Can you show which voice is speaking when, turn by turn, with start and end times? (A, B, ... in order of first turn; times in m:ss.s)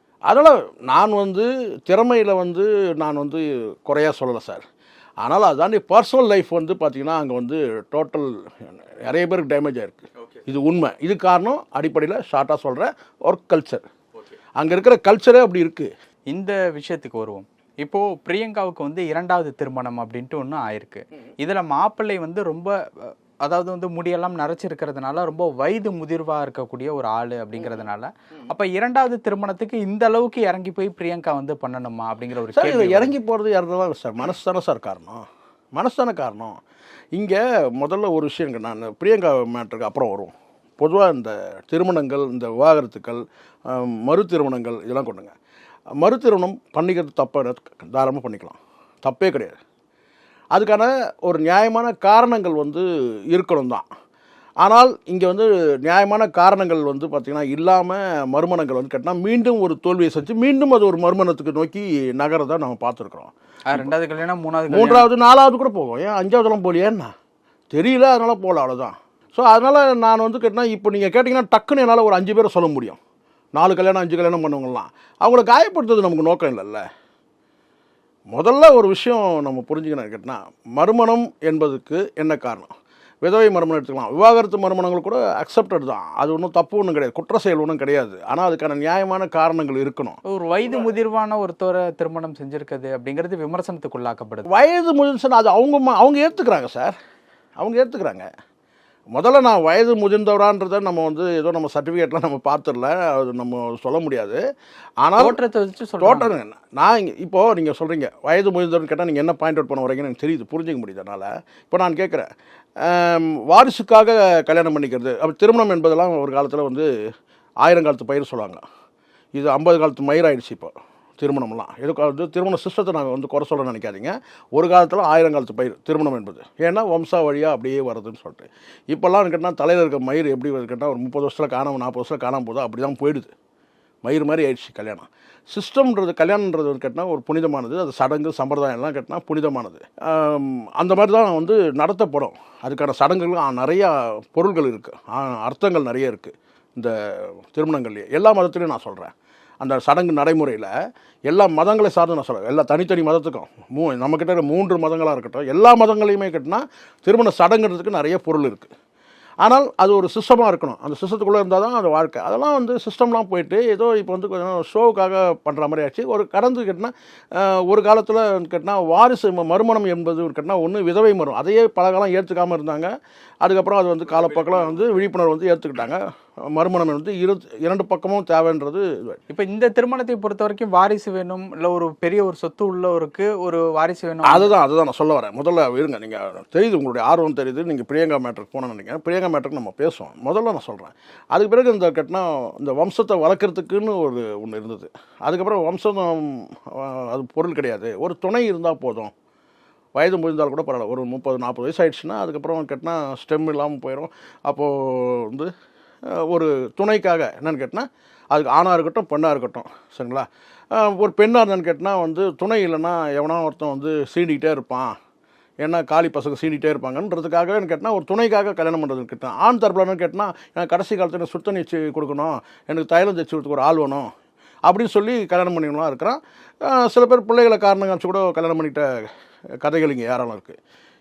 0:00.3-0:04.6 A
0:05.2-0:13.9 A
0:14.6-0:15.9 A
0:16.3-0:33.1 B
0:32.5-0:35.2 A
0:35.7-0:36.6 A
0:37.1-0:45.3 A
0:46.0-0:49.6 A
0:50.5-0:53.8 A
0:54.6-1:03.8 A
1:03.7-1:05.1 B
1:04.7-1:07.1 A
1:07.7-1:13.0 A
1:13.6-1:16.8 A
1:18.3-1:22.7 A
1:23.2-1:30.2 A
1:30.2-1:34.5 B
1:34.5-1:36.9 A
1:37.6-1:38.2 A
1:39.1-1:44.4 A
1:45.0-1:45.4 A
1:45.2-1:46.3 B
1:46.0-1:52.3 A
1:52.8-1:56.9 A
1:57.6-1:58.6 A
1:59.3-2:13.3 A
2:14.0-2:30.7 A
2:31.3-2:38.7 A
2:39.4-2:59.2 A
2:59.3-3:04.5 B
3:04.2-3:19.1 A
3:20.0-3:25.5 A
3:26.1-3:34.9 A
3:35.6-3:44.1 A
3:44.7-3:49.1 A
3:49.6-3:50.6 A